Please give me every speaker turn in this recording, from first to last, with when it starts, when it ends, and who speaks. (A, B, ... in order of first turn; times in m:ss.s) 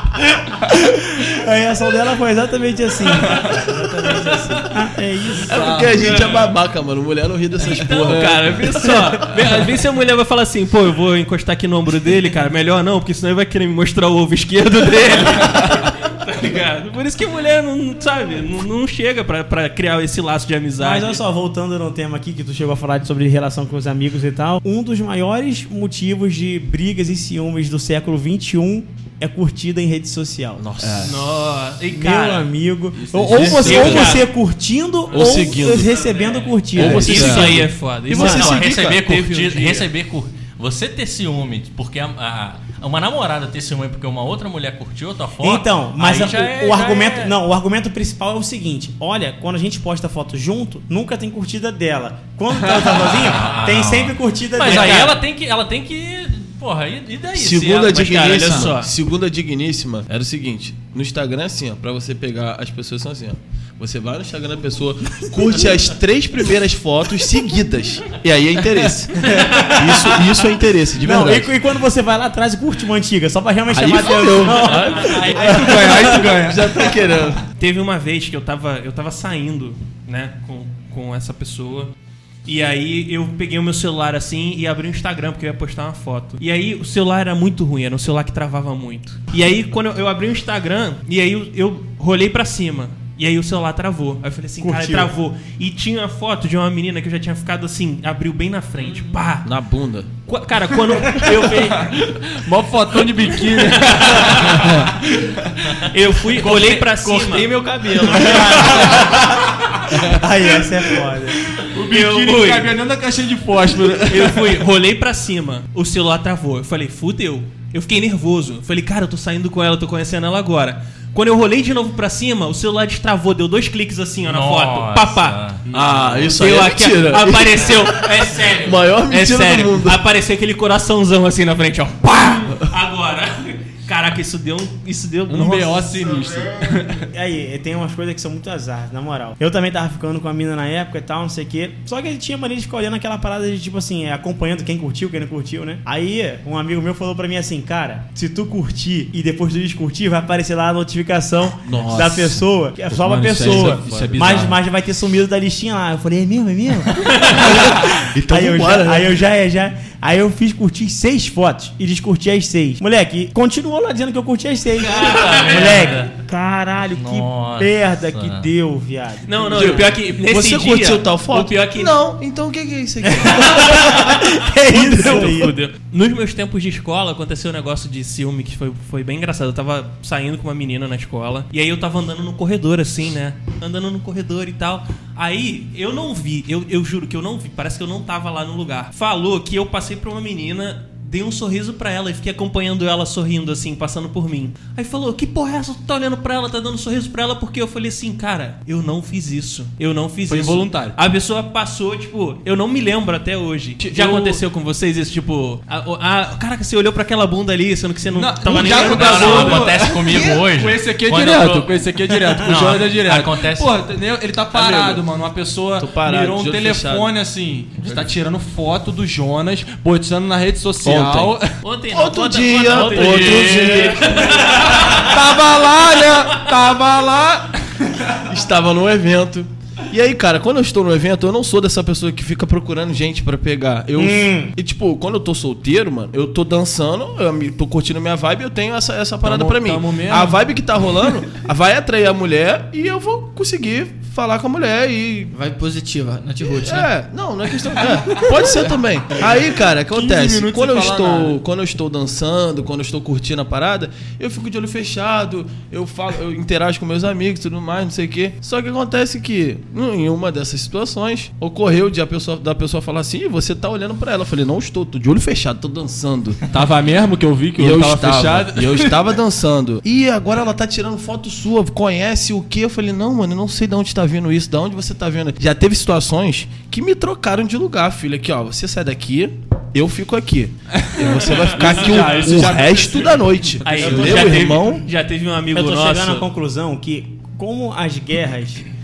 0:00.2-0:05.8 A
0:03.4-0:03.7 B
0:05.4-0:08.9 C
0:05.5-0:06.0 B
0:05.9-0:06.5 D
0:07.6-0:21.2 D
0:08.1-0:08.5 B
0:20.8-0:30.6 A
0:30.6-0:31.2 C
0:31.0-0:32.5 D
0:31.9-0:37.5 A
0:32.9-0:34.3 C
0:33.3-0:33.9 B
0:33.4-0:34.3 D
0:35.1-0:37.6 E
0:35.1-0:36.0 C
0:36.7-0:39.0 C
0:36.8-0:39.9 D
0:38.1-0:47.3 E
0:45.4-0:55.1 A
0:53.1-0:58.7 E
0:57.3-1:11.5 C
0:57.9-0:58.9 D
1:09.2-1:10.2 A
1:11.0-1:15.9 A
1:13.7-1:17.4 C
1:14.6-1:16.3 D
1:15.2-1:16.8 B
1:17.6-1:21.9 D
1:22.4-1:39.5 D
1:34.6-1:35.1 A
1:39.4-1:40.1 C
1:40.3-1:42.1 D
1:42.4-1:45.6 B
1:43.4-1:44.8 D
1:45.7-1:49.3 E
1:45.9-1:47.6 D
1:48.1-1:48.9 D
1:48.1-1:51.4 A
1:51.7-1:54.5 B
1:51.7-1:52.7 D
1:54.1-2:05.4 D
2:04.2-2:05.6 E
2:05.7-2:06.2 B
2:05.7-2:10.0 C
2:06.3-2:15.9 D
2:15.3-2:17.1 B
2:17.1-2:50.0 A
2:31.6-2:32.4 C
2:32.9-2:34.6 B
2:33.2-2:34.5 C
2:37.3-2:39.1 C
2:44.8-2:46.1 E
2:45.1-2:45.7 D
2:46.9-2:48.5 E
2:49.3-2:52.0 D
2:49.5-2:54.0 C
2:53.0-2:55.5 A
2:53.6-2:53.9 D
2:54.7-3:30.0 D
2:54.8-2:55.3 C
3:20.2-3:21.0 B
3:23.8-3:24.4 B
3:28.1-3:41.6 B
3:28.6-3:31.8 E
3:32.4-3:33.8 E
3:34.5-3:35.0 C
3:35.8-3:37.1 C
3:37.8-3:38.1 C
3:40.8-3:41.4 C
3:41.6-3:45.1 D
3:41.9-3:44.4 C
3:42.7-3:44.2 E
3:44.7-3:47.9 B
3:48.2-4:05.3 C
3:54.0-3:54.5 A
3:59.2-4:00.4 B
4:05.3-4:06.9 F
4:06.6-4:26.4 C
4:08.3-4:08.8 F
4:09.9-4:11.4 B
4:26.5-4:28.9 B
4:27.6-4:44.8 C
4:40.7-4:44.3 B
4:41.6-4:42.6 D
4:43.6-4:46.3 D
4:43.8-4:44.5 A
4:45.5-4:48.6 A